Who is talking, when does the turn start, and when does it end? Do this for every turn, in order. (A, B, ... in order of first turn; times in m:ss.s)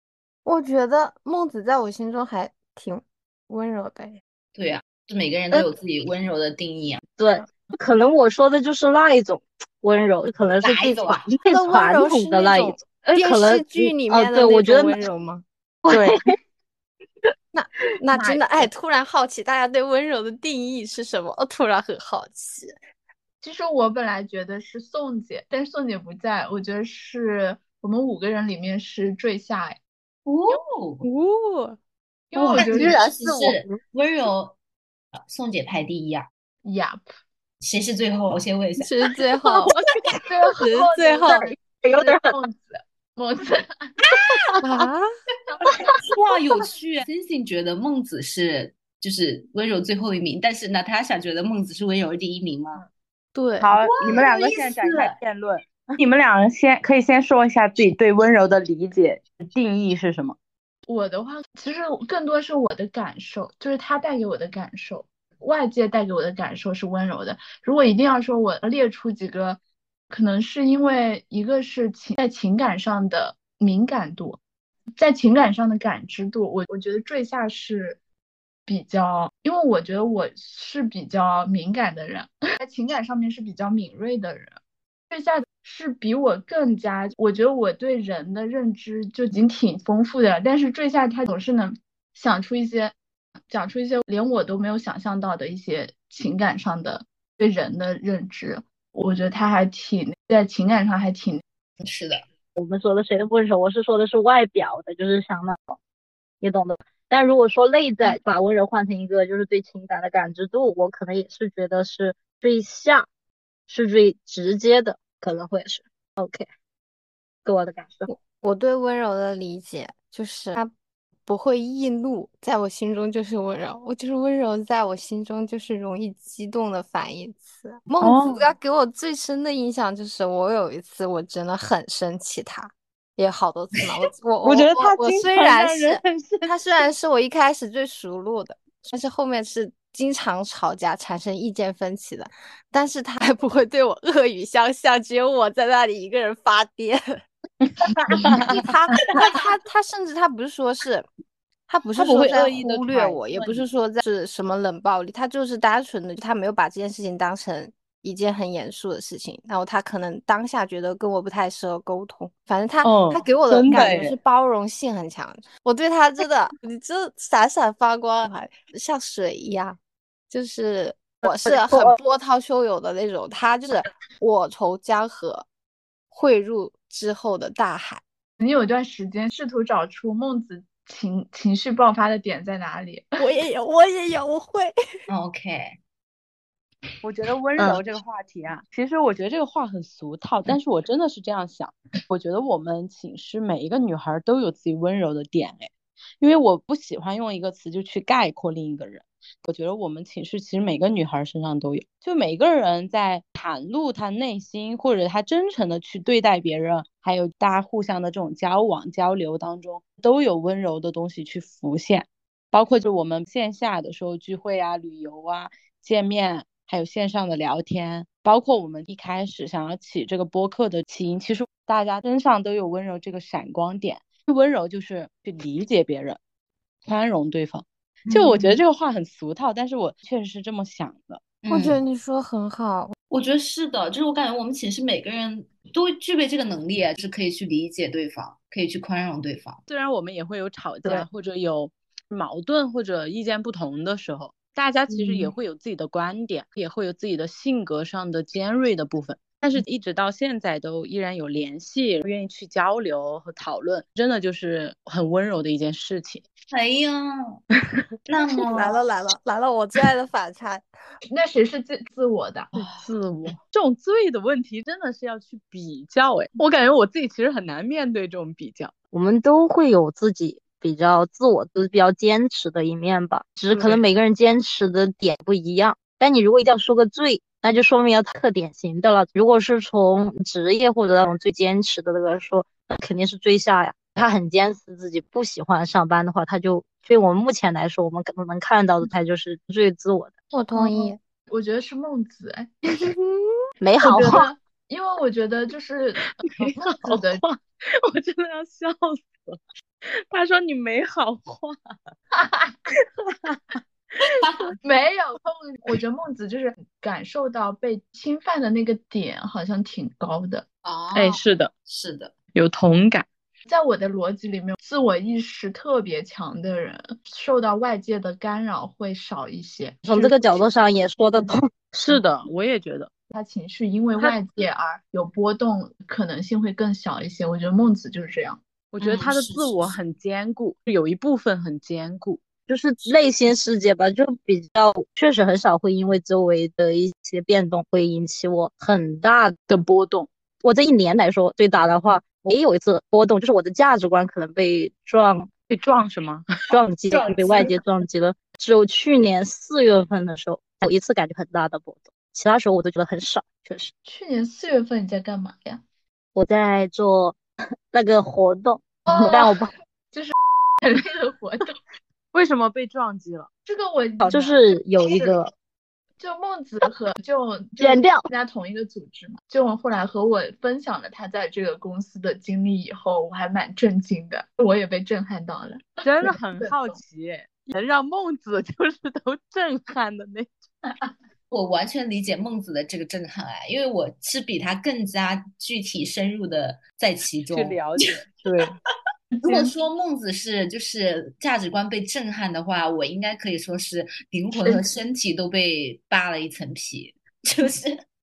0:00.4-0:04.2 A
0:04.5-0:07.0 B
0:07.2-0:15.0 C
0:10.6-0:11.3 B
0:11.4-0:15.4 A
0:15.8-0:16.3 C
0:15.9-0:16.2 D
0:17.5-0:22.8 A
0:18.1-0:18.5 E
0:23.4-0:29.8 E
0:30.2-0:31.0 B
0:31.0-0:31.8 D
0:32.3-0:32.9 E
0:32.4-0:32.7 D
0:32.5-0:34.6 B
0:32.8-0:33.8 C
0:35.3-0:36.3 B
0:36.6-0:37.1 E
0:37.6-0:38.9 B
0:38.8-0:39.7 A
0:40.2-0:43.9 E
0:40.6-0:42.3 C
0:41.0-0:41.4 A
0:44.1-0:44.4 B
0:44.6-0:45.0 A
0:46.0-0:52.8 B
0:53.3-0:53.7 A
0:53.6-1:00.4 D
0:53.8-0:55.2 B
1:00.9-1:09.6 E
1:10.1-1:14.4 E
1:15.0-1:18.0 E
1:18.6-1:24.6 E
1:25.1-1:32.9 E
1:33.5-1:41.4 E
1:41.8-1:42.2 B
1:42.5-1:45.8 C
1:46.4-1:53.1 C
1:53.7-1:56.4 C
1:57.4-1:58.1 C
1:58.1-2:00.7 A
2:01.2-2:27.0 A
2:08.0-2:08.5 D
2:14.4-2:16.5 D
2:28.0-2:28.5 B
2:28.1-2:28.6 D
2:28.2-2:31.1 A
2:29.1-2:29.4 B
2:31.7-2:49.8 A
2:31.9-2:33.6 D
2:42.8-2:44.1 D
2:50.3-2:55.4 A
2:51.2-2:52.0 C
2:56.1-2:58.0 A
2:58.4-3:03.0 E
3:03.2-3:04.7 A
3:05.1-3:05.8 B
3:07.0-3:46.2 D
3:46.8-3:51.3 D
3:48.0-3:48.6 B
3:51.4-3:51.8 B
3:51.5-3:52.9 A
3:53.1-3:59.6 B
3:59.7-4:16.2 D
4:16.5-4:17.4 B
4:18.0-4:18.8 B
4:18.4-4:20.6 A
4:21.1-4:22.5 E
4:22.5-4:28.7 D
4:28.9-4:50.1 C
4:33.5-4:33.8 D
4:50.3-4:51.0 A
4:50.5-4:52.5 E
4:53.6-4:54.3 C
4:53.8-4:57.2 E
4:56.2-4:59.4 D
5:00.1-5:01.7 D
5:02.1-5:02.6 E
5:02.8-5:04.3 D
5:04.6-5:10.4 E
5:10.6-5:12.1 B
5:10.9-5:11.5 D
5:12.3-5:13.1 D
5:13.5-5:20.4 E
5:19.8-5:21.5 C
5:21.7-5:22.9 D
5:23.1-5:28.4 E
5:28.7-5:32.2 D
5:28.8-5:29.8 B
5:32.5-5:39.4 C
5:39.5-5:40.1 D
5:40.4-5:45.3 C
5:45.5-5:46.5 D
5:46.5-5:53.7 C
5:46.9-5:47.6 B
5:53.8-5:55.6 E
5:56.1-5:57.2 C
5:57.7-5:59.5 C
5:58.9-5:59.4 E
5:59.9-6:01.6 E
6:02.1-6:03.3 D
6:03.4-6:05.1 E
6:04.0-6:05.3 C
6:06.0-6:16.8 E
6:07.6-6:08.1 C
6:15.8-6:20.3 D
6:20.6-6:20.9 E
6:21.3-6:28.0 B
6:27.3-6:28.6 D
6:29.1-6:29.5 E
6:29.2-6:37.8 B
6:34.3-6:34.7 E